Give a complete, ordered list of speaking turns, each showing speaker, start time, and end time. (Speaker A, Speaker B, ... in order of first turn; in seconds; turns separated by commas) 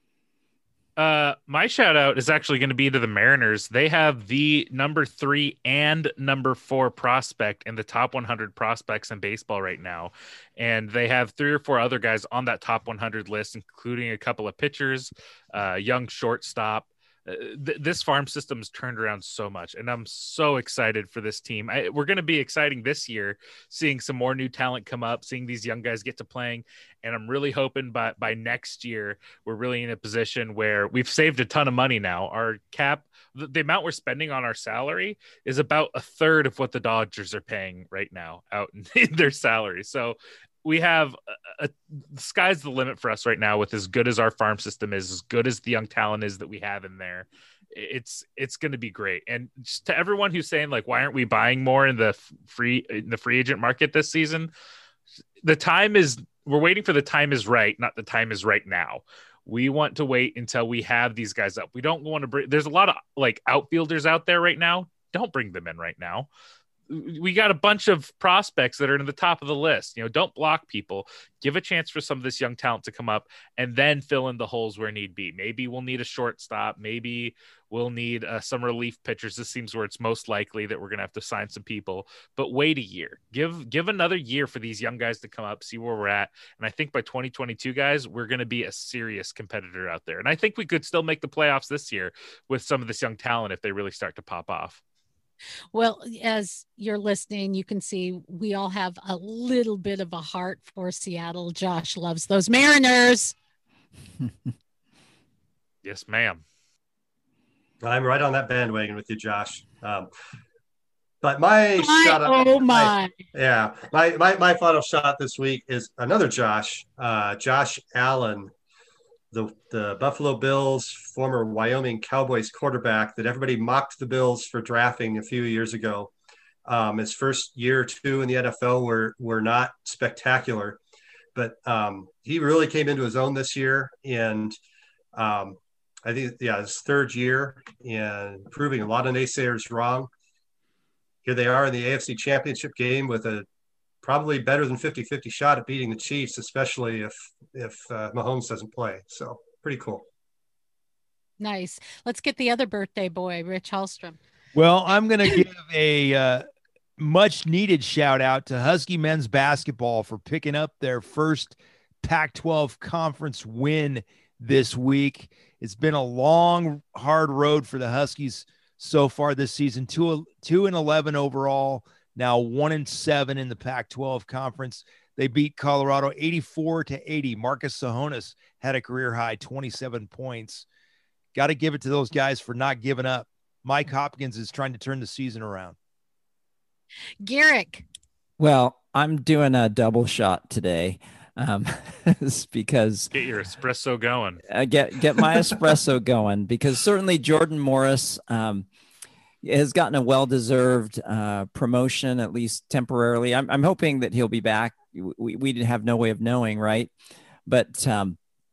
Speaker A: 1.0-54.5, Speaker A: 55.4-66.3, Speaker A: 66.9-94.8, Speaker B: 95.7-103.3, Speaker A: 105.8-106.4, Speaker C: 107.8-110.1, Speaker C: 111.2-118.5, Speaker B: 111.8-113.1, Speaker C: 119.3-126.1, Speaker C: 126.7-130.8, Speaker C: 131.3-134.6, Speaker C: 135.1-140.1, Speaker C: 141.2-143.4, Speaker C: 144.0-150.1, Speaker B: 151.4-154.2, Speaker D: 154.5-156.4, Speaker D: 157.0-180.7, Speaker D: 181.3-185.8, Speaker B: 187.2-187.8, Speaker E: 188.4-193.1, Speaker A: 193.1-194.4, Speaker E: 194.5-198.7, Speaker E: 199.4-206.9, Speaker E: 207.5-208.2